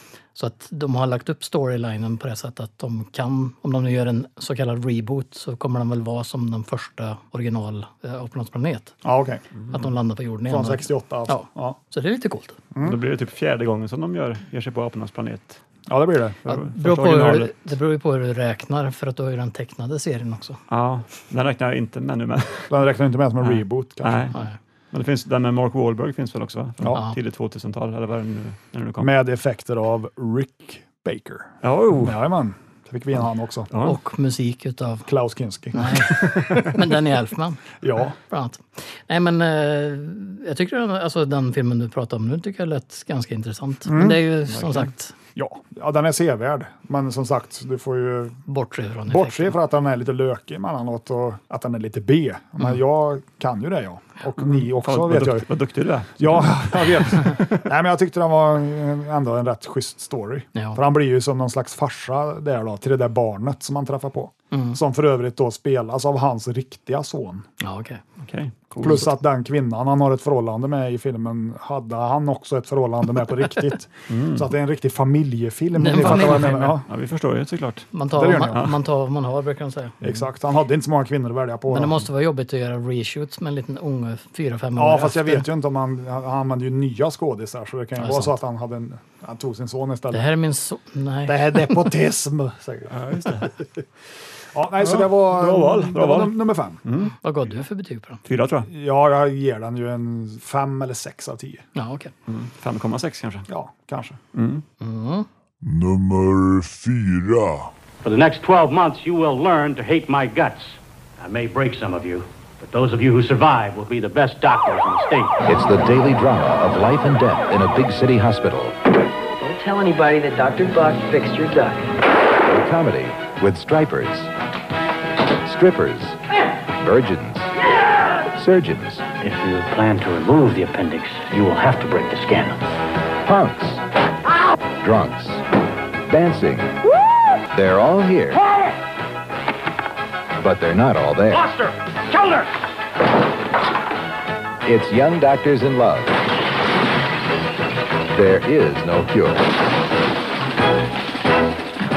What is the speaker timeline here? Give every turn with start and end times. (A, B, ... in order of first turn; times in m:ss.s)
0:00.3-0:08.9 A
0:09.0-0:09.4 B
0:09.5-0:09.8 C
0:09.7-0:12.6 A
0:10.5-0:11.8 B
0:12.7-0:13.0 B
0:12.8-0:15.6 C
0:15.9-0:16.4 B
0:16.4-0:17.7 C
0:16.5-0:20.6 A
0:20.7-0:22.7 C
0:22.7-0:24.3 B
0:23.4-0:24.3 C
0:24.9-0:29.1 C
0:29.0-0:33.7 B
0:31.6-0:32.2 C
0:33.7-0:34.0 C
0:33.8-0:35.1 A
0:35.1-0:36.8 B
0:35.7-0:37.6 A
0:37.8-0:38.2 B
0:38.3-0:45.1 A
0:43.9-0:44.2 B
0:44.5-0:44.9 C
0:45.4-0:48.4 B
0:48.5-0:49.6 A
0:49.1-0:55.5 B
0:54.4-0:57.6 C
0:56.2-1:07.5 B
1:04.5-1:04.8 A
1:07.6-1:08.0 A
1:08.2-1:09.1 C
1:08.8-1:16.8 B
1:14.1-1:14.5 C
1:15.8-1:16.7 A
1:16.0-1:17.9 C
1:17.9-1:20.0 A
1:18.1-1:18.6 B
1:20.0-1:22.0 B
1:21.7-1:25.5 A
1:24.8-1:30.3 B
1:28.0-1:28.3 A
1:30.1-1:31.9 A
1:31.2-1:33.6 B
1:32.9-1:33.5 C
1:34.5-1:36.8 B
1:34.8-1:37.1 C
1:37.2-1:38.2 A
1:38.2-1:38.7 C
1:38.6-1:41.6 B
1:41.7-1:42.1 A
1:42.3-1:43.5 C
1:43.5-1:44.2 B
1:44.3-1:44.6 C
1:44.8-1:45.3 A
1:45.6-1:47.7 D
1:48.0-1:55.4 E
1:55.5-1:58.7 F
1:59.4-2:01.8 G
2:02.4-2:04.3 F
2:05.4-2:06.2 F
2:06.7-2:07.5 F
2:08.3-2:09.0 F
2:09.2-2:12.7 E
2:13.2-2:13.8 F
2:14.8-2:15.4 F
2:16.1-2:16.8 F
2:17.5-2:18.4 F
2:20.4-2:21.5 F
2:24.6-2:26.1 F
2:28.1-2:29.5 F